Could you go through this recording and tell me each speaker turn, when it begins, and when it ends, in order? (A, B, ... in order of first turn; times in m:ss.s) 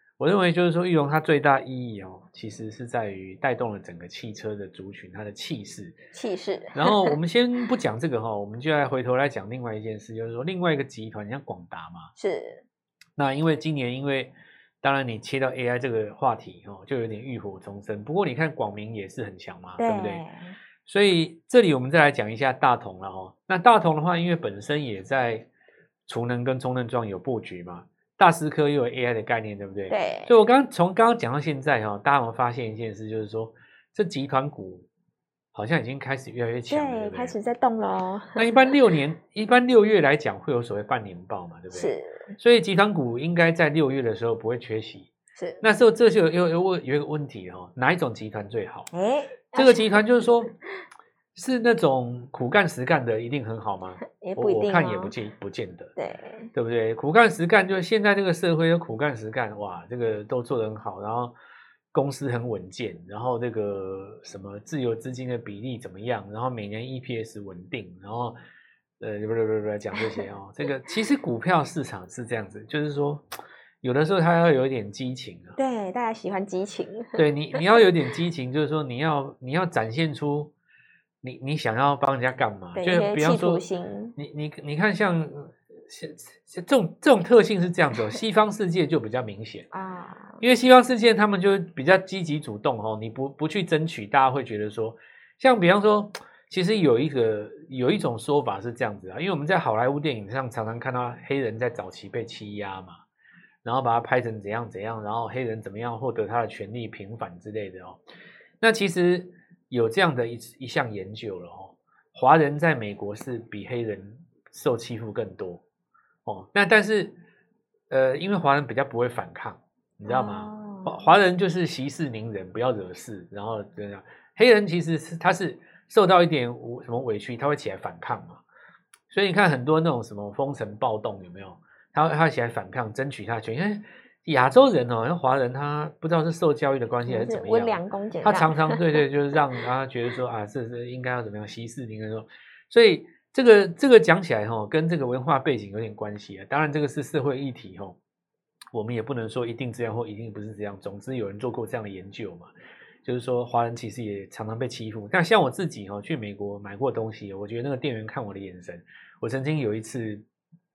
0:00.2-0:06.0 A
0:06.1-0:07.2 B
0:06.7-0:12.1 A
0:12.2-0:12.6 B
0:13.2-0:20.2 A
0:19.8-0:20.5 B
0:20.8-0:25.5 A
0:26.1-0:34.8 A
0:29.9-0:30.3 B
0:35.5-0:37.4 A
0:36.7-0:38.5 B
0:38.4-0:45.1 A
0:41.7-0:42.3 B
0:45.4-0:45.6 B
0:45.6-0:48.9 A
0:48.9-0:50.0 B
0:49.5-0:50.5 A
0:51.3-0:55.9 A
0:54.2-0:55.1 B
0:56.0-0:56.5 B
0:56.5-1:01.3 A
1:01.9-1:08.4 A
1:09.0-1:13.3 A
1:13.8-1:15.6 A
1:15.6-1:17.6 B
1:17.1-1:20.5 A
1:21.2-1:23.6 A
1:22.7-1:24.2 B
1:24.2-1:29.7 A
1:29.7-1:30.4 B
1:30.4-1:43.0 A
1:43.6-1:48.0 A
1:48.6-1:55.6 A
1:56.2-1:57.2 A
1:57.9-2:08.4 A
2:00.0-2:01.1 B
2:09.1-2:28.0 A
2:17.1-2:18.8 B
2:28.7-2:32.5 A
2:33.0-2:40.2 A